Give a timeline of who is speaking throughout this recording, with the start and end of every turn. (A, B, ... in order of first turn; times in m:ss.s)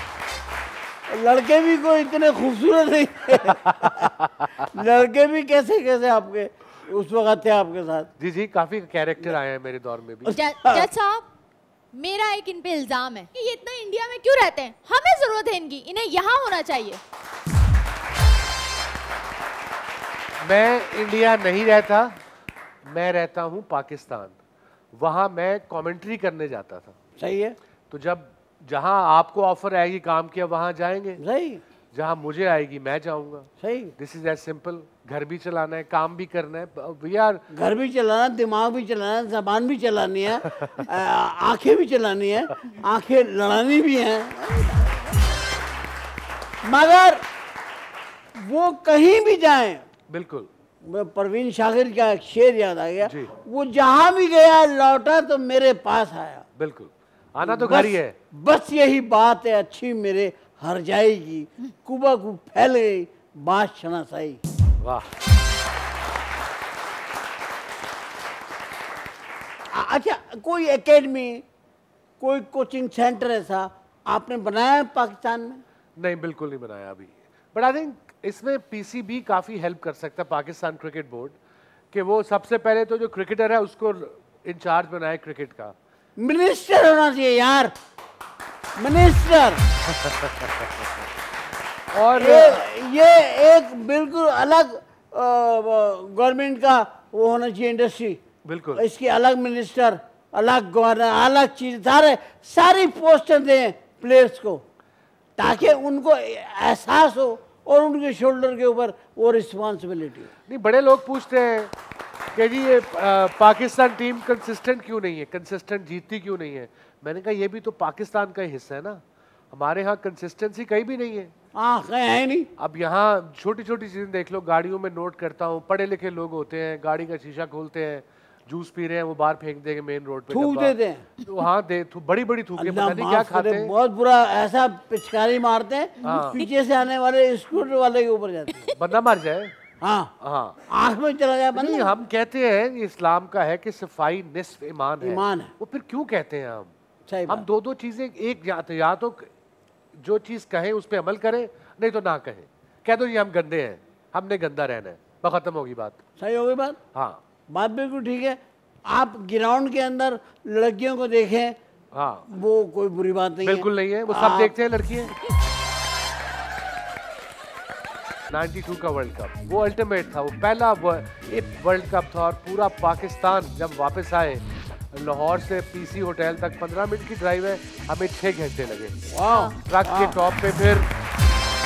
0:01.1-0:04.1 A
0:03.4-0:04.6 B
0:04.6-0:08.1 A
0:08.2-0:10.4 B
0:10.3-0:11.3 C
0:10.6-0:10.9 A
0:11.9-0:17.0 C
0:20.4-0:22.2 B
0:22.8-0:24.4 B
0:24.9-0:26.9 B
0:27.2-0:27.6 A
0:27.9-0:31.2 B
0:31.2-0:31.6 A
0:31.9-0:37.4 B
0:33.6-0:33.9 A
0:37.5-0:45.2 A
0:46.6-0:47.2 A
0:48.4-0:49.8 A
0:50.1-0:50.5 B
0:50.8-0:56.4 A
0:53.0-0:53.3 B
0:56.6-0:58.2 B
0:57.4-1:04.4 A
1:04.8-1:05.1 B
1:09.7-1:11.4 A
1:12.2-1:15.6 A
1:16.0-1:21.4 B
1:21.9-1:25.7 B
1:26.2-1:27.7 A
1:28.8-1:29.6 A
1:29.9-1:31.0 B
1:31.9-1:32.6 B
1:32.2-1:38.2 A
1:38.4-1:38.8 B
1:38.7-1:44.6 A
1:45.4-1:50.3 A
1:45.4-1:45.8 B
1:50.5-1:51.7 B
1:52.3-2:01.3 B
2:01.5-2:02.5 A
2:02.6-2:13.7 B
2:10.3-2:11.0 A
2:12.6-2:18.7 A
2:16.0-2:16.4 B
2:18.7-2:19.5 B
2:19.8-2:20.1 A
2:20.2-2:20.6 B
2:20.7-2:21.9 A
2:21.6-2:26.7 B
2:25.0-2:25.5 A
2:27.1-2:27.4 A
2:27.3-2:29.3 B
2:29.9-2:36.0 B
2:36.2-2:36.8 A
2:36.9-2:37.2 B
2:37.5-2:41.6 A
2:41.9-2:42.2 B
2:42.3-2:44.5 A
2:43.4-2:45.2 B
2:48.3-2:59.0 B
2:59.1-3:00.2 A
2:59.6-3:00.9 B